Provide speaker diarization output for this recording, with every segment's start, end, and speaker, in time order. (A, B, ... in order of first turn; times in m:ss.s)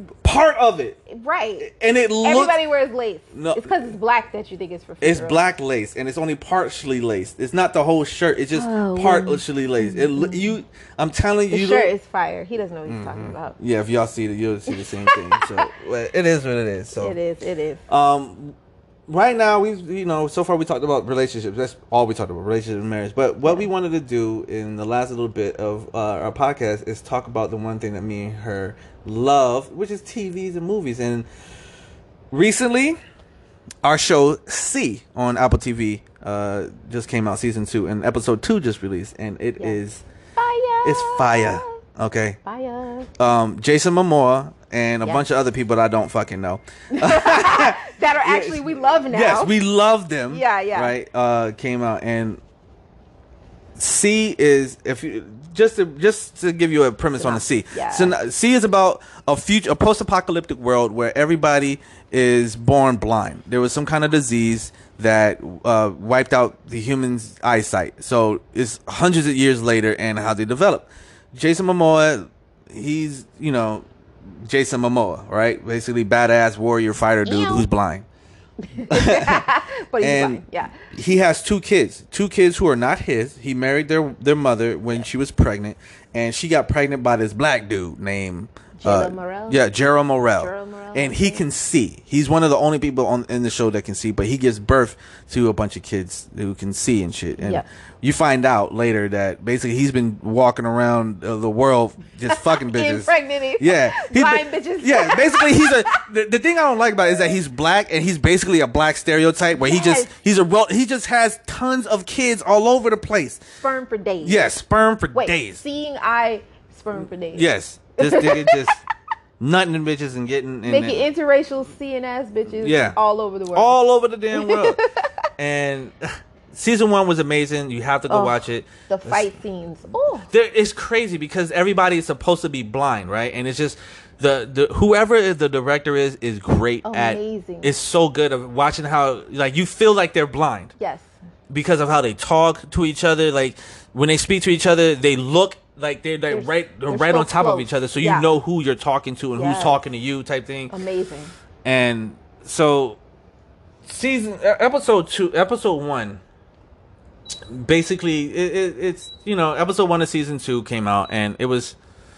0:00.2-0:01.0 A
0:01.1-0:01.7 B
0:01.6-0:02.6 A
0:02.2-0:05.4 B
0:03.3-0:04.0 A
0:05.0-0:11.9 A
0:08.5-0:10.6 B
0:11.5-0:13.6 B
0:12.9-0:17.2 A
0:14.7-0:15.7 B
0:17.0-0:17.8 B
0:17.9-0:18.6 A
0:19.1-0:31.3 A
0:32.3-0:33.0 A
0:33.8-0:40.0 A
0:40.4-0:41.8 B
0:40.8-0:42.4 A
0:42.4-0:43.1 B
0:43.2-0:52.4 A
0:46.9-0:49.5 B
0:50.3-0:50.9 B
0:53.8-1:13.9 A
0:57.2-0:58.2 B
1:14.5-1:18.1 A
1:17.2-1:17.6 B
1:18.7-1:20.8 B
1:18.9-1:19.4 A
1:20.0-1:53.4 A
1:28.8-1:29.7 B
1:30.4-1:31.4 B
1:37.4-1:37.6 B
1:42.3-1:46.0 B
1:49.5-1:50.1 B
1:53.6-1:54.5 B
1:54.2-1:55.6 A
1:55.1-1:58.7 B
1:57.4-1:58.8 A
1:59.4-2:01.1 A
2:00.7-2:03.8 B
2:02.6-2:03.0 A
2:03.5-2:04.8 A
2:04.3-2:05.3 B
2:05.4-2:09.3 A
2:08.1-2:10.3 B
2:10.3-2:20.7 A
2:16.8-2:17.7 B
2:20.8-2:21.1 B
2:21.5-2:30.7 A
2:26.3-2:28.3 B
2:29.4-2:29.8 B
2:30.7-2:31.3 B
2:31.6-2:33.0 A
2:33.9-2:36.2 A
2:37.5-2:41.8 A